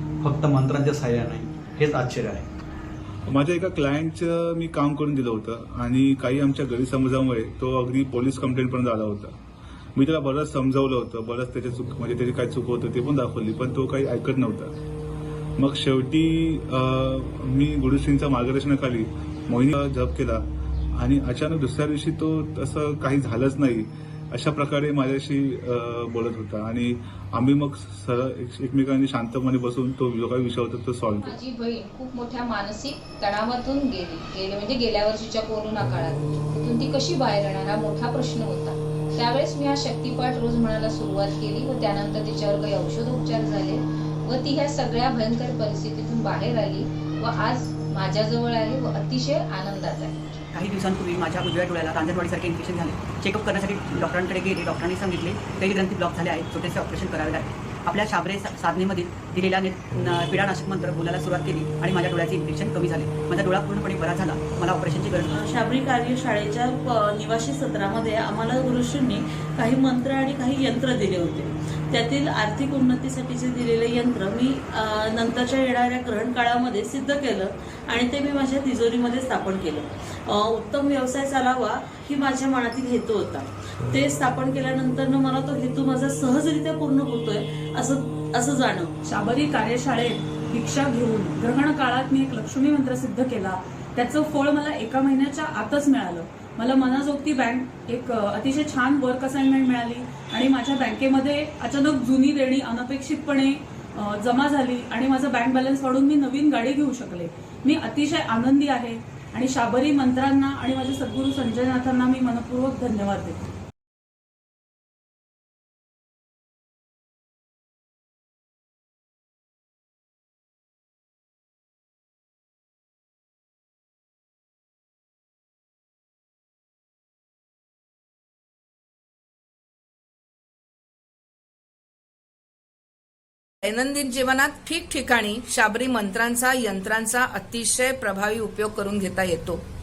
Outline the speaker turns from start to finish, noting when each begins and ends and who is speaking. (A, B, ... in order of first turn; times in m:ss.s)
0:00.2-0:02.5 A
0:03.3-0:09.3 B
0:09.9-0:14.7 B
0:15.6-0:20.4 B
0:21.0-0:31.3 B
0:31.2-0:50.2 C
0:50.5-1:05.2 D
1:05.3-1:28.9 E
1:29.0-1:53.4 F
2:13.6-2:19.6 G